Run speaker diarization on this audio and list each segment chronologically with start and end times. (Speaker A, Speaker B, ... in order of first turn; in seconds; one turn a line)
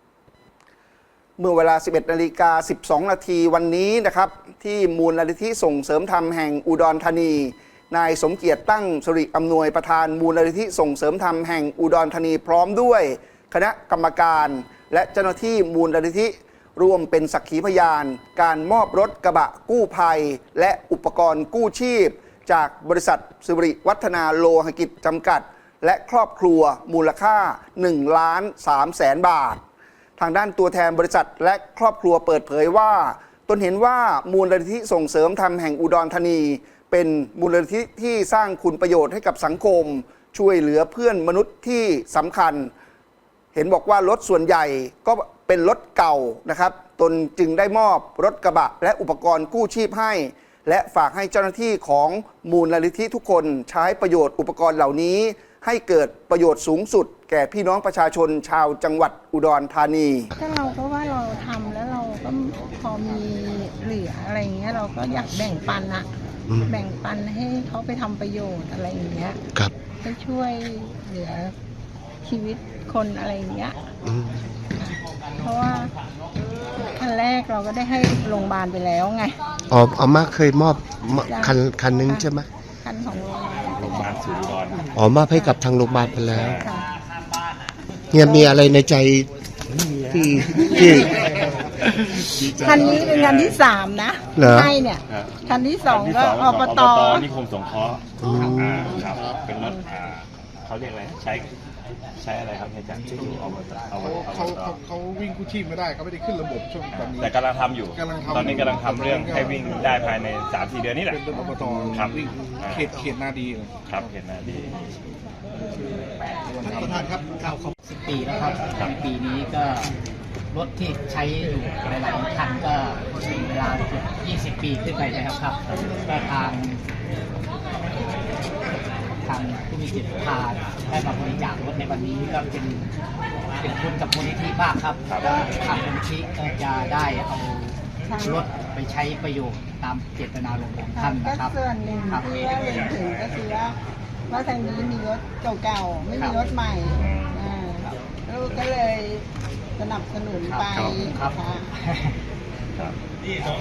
Speaker A: 1.4-29.6
Speaker A: 30.2-42.7
Speaker A: 43.5-60.3
Speaker B: 60.4-66.1
Speaker B: 66.7-69.4
Speaker B: 70.0-71.5
Speaker B: 72.2-73.8
Speaker C: 74.0-74.7
Speaker B: 74.8-75.9
Speaker B: 76.7-79.4
Speaker C: 79.7-82.5
Speaker B: 81.3-82.3
Speaker B: 82.8-84.2
Speaker D: 83.7-84.9
Speaker C: 85.0-86.6
Speaker D: 86.3-86.6
Speaker B: 86.5-86.9
Speaker C: 88.1-89.3
Speaker B: 88.2-88.6
Speaker D: 89.7-93.6
Speaker C: 90.1-91.2
Speaker B: 90.8-91.2
Speaker B: 92.2-97.3
Speaker C: 94.4-94.8
Speaker D: 95.1-101.5
Speaker C: 98.2-99.0
Speaker D: 102.2-104.8
Speaker E: 104.0-107.3
Speaker D: 106.9-113.0
Speaker E: 108.0-109.4
Speaker E: 111.2-113.7
Speaker D: 113.9-114.9
Speaker F: 116.6-117.2
Speaker E: 116.6-117.2
Speaker F: 117.8-119.9
Speaker F: 120.5-126.8
Speaker D: 125.7-126.2
Speaker F: 129.2-132.9
Speaker F: 133.6-141.5
Speaker D: 135.1-135.4
Speaker B: 138.1-138.5
Speaker B: 140.9-143.8
Speaker F: 142.1-142.3
Speaker B: 144.3-149.3
Speaker D: 147.0-147.4
Speaker B: 149.8-151.7
Speaker F: 150.4-152.2